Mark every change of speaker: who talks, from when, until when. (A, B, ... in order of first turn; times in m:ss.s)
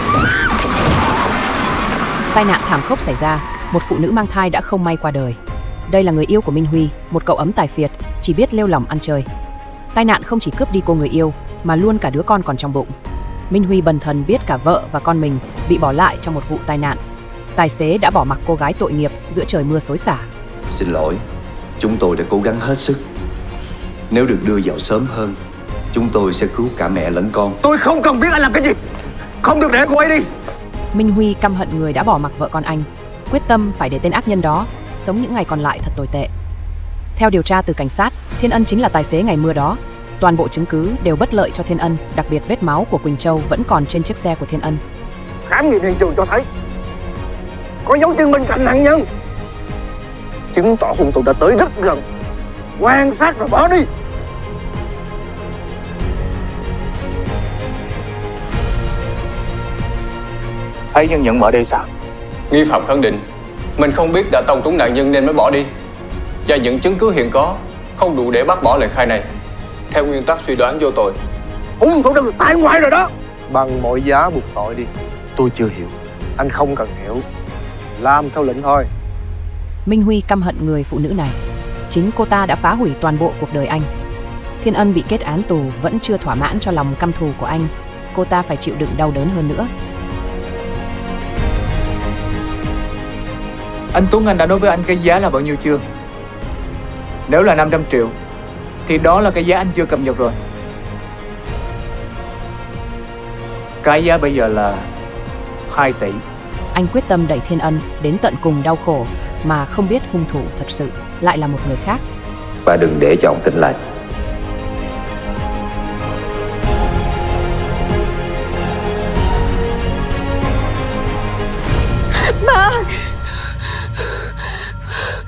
0:02.3-0:05.4 A
0:05.9-0:09.3 A
0:09.9-0:12.9 A
0:13.5-0:17.0 A
0:17.6-0:20.3 A
0:20.7-0:21.2 B
0:21.8-0:23.0 B
0:24.1-0:25.4 B
0:25.9-0:27.6 B
0:27.6-0:28.8 C
0:29.4-0:30.3 C
0:30.9-0:36.3 A
0:37.2-0:44.8 A
0:45.5-0:46.4 C
0:47.8-0:49.1 C
0:50.5-0:52.0 C
0:52.8-0:53.9 C
1:00.9-1:01.9 D
1:02.5-1:03.2 E
1:03.8-1:05.7 E
1:06.5-1:09.2 E
1:09.9-1:11.2 E
1:11.8-1:14.9 C
1:15.4-1:15.9 C
1:16.4-1:17.2 C
1:18.0-1:18.9 C
1:19.9-1:21.4 A
1:21.9-1:23.9 A
1:24.6-1:29.7 A
1:33.9-1:35.8 D
1:37.3-1:38.1 D
1:38.9-1:40.4 D
1:43.8-1:44.8 D
1:45.7-1:46.2 D
1:46.7-1:52.0 A
1:52.6-1:53.8 B